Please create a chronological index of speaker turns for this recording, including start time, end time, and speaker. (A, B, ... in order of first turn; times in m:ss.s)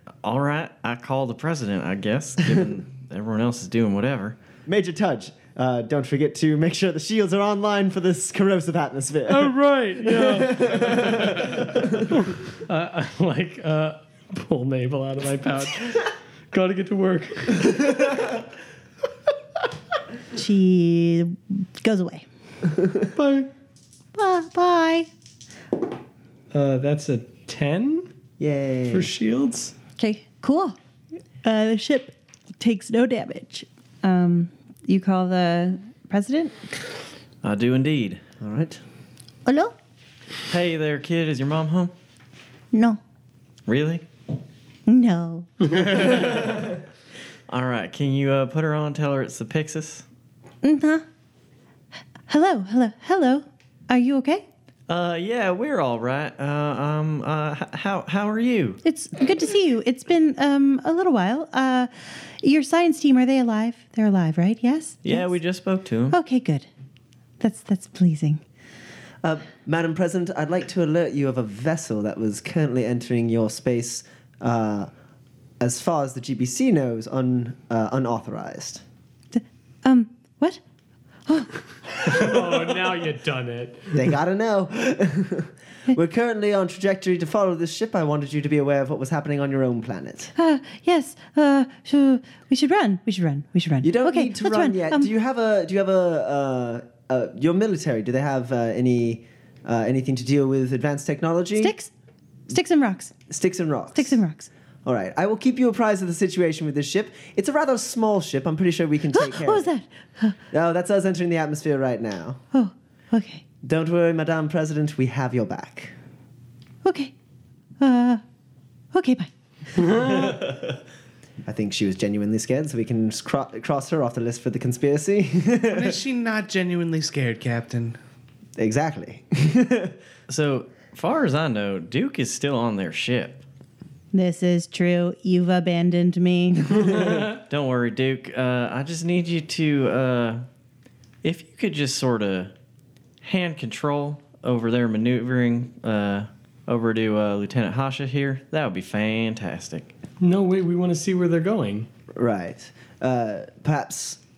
0:00.2-0:04.4 A
0:04.7-0:12.1 B
0:09.3-0:18.4 C
0:20.3-0:22.2 D
0:23.2-0:23.5 C
0:24.2-0:25.1 D
0:26.5-0:28.1 C
0:28.4-0:29.1 B
0:28.9-0:29.8 C
0:30.0-0:30.8 D
0:31.4-0:36.6 D
0:37.4-0:38.3 A
0:38.4-0:38.8 B
0:39.5-0:39.8 D
0:40.5-0:41.9 A
0:42.7-0:43.0 D
0:43.7-0:44.0 A
0:44.9-0:46.1 D
0:46.1-0:46.4 A
0:47.5-0:50.0 A
0:50.6-0:51.0 D
0:52.3-0:54.4 D
0:54.9-0:58.8 A
0:58.8-1:05.4 D
1:05.0-1:06.2 A
1:06.1-1:06.7 D
1:07.4-1:08.4 D
1:09.2-1:14.9 B
1:15.6-1:18.8 B
1:19.3-1:20.6 D
1:21.3-1:22.1 D
1:22.1-1:24.1 C
1:23.9-1:30.3 B
1:30.4-1:35.1 D
1:33.8-1:41.7 B
1:41.6-1:41.9 D
1:42.5-1:43.1 D
1:43.3-1:44.2 B
1:44.0-1:44.5 D
1:44.8-1:49.7 B
1:49.1-1:50.4 D
1:50.5-1:52.4 B
1:52.5-1:53.4 D
1:53.6-1:55.9 B
1:56.8-1:57.1 D
1:57.8-1:58.2 D
1:58.9-1:59.3 D
1:59.8-2:00.3 C
2:01.4-2:06.0 B
2:05.7-2:08.0 E
2:08.6-2:10.0 B
2:10.3-2:13.4 A
2:14.1-2:16.9 D
2:16.7-2:17.1 B
2:16.9-2:17.4 C
2:17.3-2:20.4 A
2:21.2-2:22.5 A
2:23.2-2:29.9 A
2:30.2-2:31.9 C
2:32.1-2:34.2 B